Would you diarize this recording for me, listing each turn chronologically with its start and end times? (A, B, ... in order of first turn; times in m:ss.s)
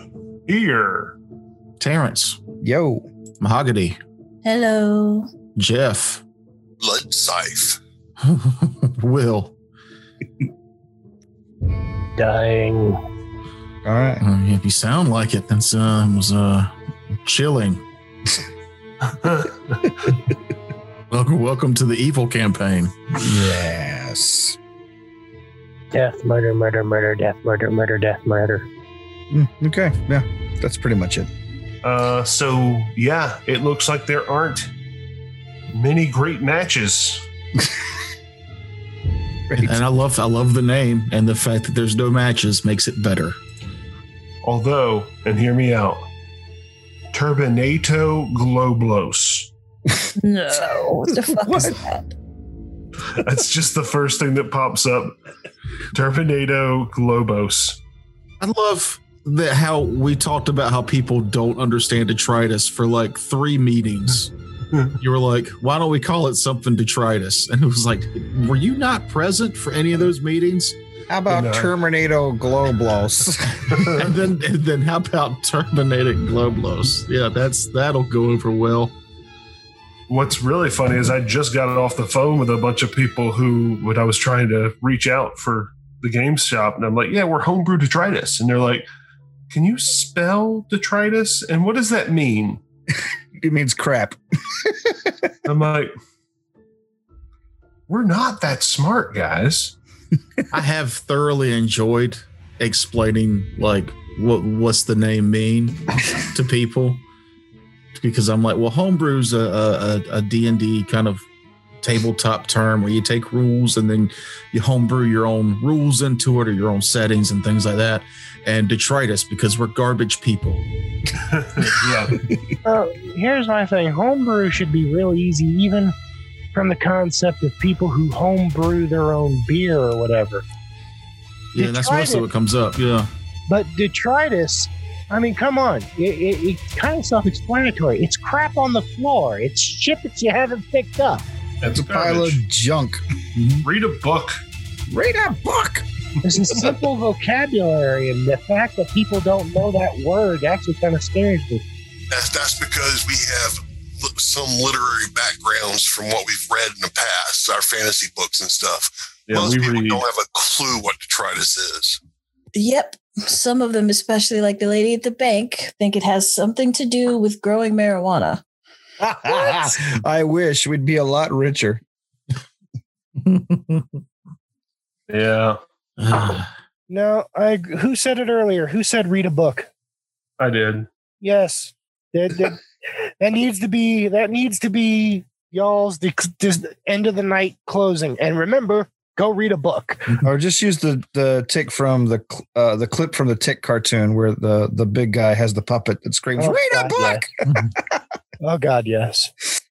0:00.5-0:01.2 A
0:01.8-0:02.4 B
0:02.6-0:03.1 C
0:03.4-0:04.0 B
0:04.4-0:05.3 D
0:05.6-0:06.2 B
0:06.8-0:07.8 E
0:08.2-0:09.6 B
0:12.2-0:13.0 F
0:13.8-0:14.2 C
0:14.2-0:17.8 B
0:19.2-0:19.5 A
0:21.1-0:23.1 B
0:23.2-0:24.6 C
0:25.9-0:28.7 F
0:29.3-0:31.3 C
0:31.8-0:34.7 A
0:35.7-0:37.3 A
0:39.5-0:39.8 C
0:39.6-0:43.4 B
0:44.4-0:46.1 A
0:47.1-0:49.5 A
0:50.2-0:52.1 D
0:51.1-0:51.8 C
0:53.1-0:55.2 A
0:55.9-0:57.8 A
0:58.4-1:04.3 B
1:04.9-1:10.8 B
1:11.1-1:14.0 C
1:11.3-1:11.7 A
1:13.9-1:19.0 B
1:20.1-1:28.9 A
1:29.5-1:32.6 A
1:33.4-1:35.3 C
1:35.4-1:35.9 A
1:37.9-1:39.8 A
1:40.5-1:47.0 B
1:48.0-1:51.2 B
1:51.8-2:00.6 B
2:01.3-2:02.2 A
2:02.6-2:06.0 F
2:06.5-2:10.4 F
2:11.5-2:13.1 B
2:11.6-2:12.3 F
2:13.5-2:21.2 F
2:21.6-2:22.4 A
2:21.7-2:23.0 C
2:23.4-2:23.7 B
2:23.6-2:24.4 A
2:24.9-2:25.9 C
2:26.2-2:31.6 F
2:32.1-2:42.0 E
2:39.3-2:40.0 A
2:42.6-2:48.4 D
2:49.2-2:51.8 C
2:53.2-2:53.9 B
2:55.1-2:55.6 A
2:56.0-2:56.5 B
2:56.9-2:59.7 F
3:00.4-3:00.9 A
3:01.2-3:02.6 F
3:03.2-3:10.2 F
3:10.2-3:17.6 C
3:16.4-3:17.2 F
3:18.4-3:19.3 F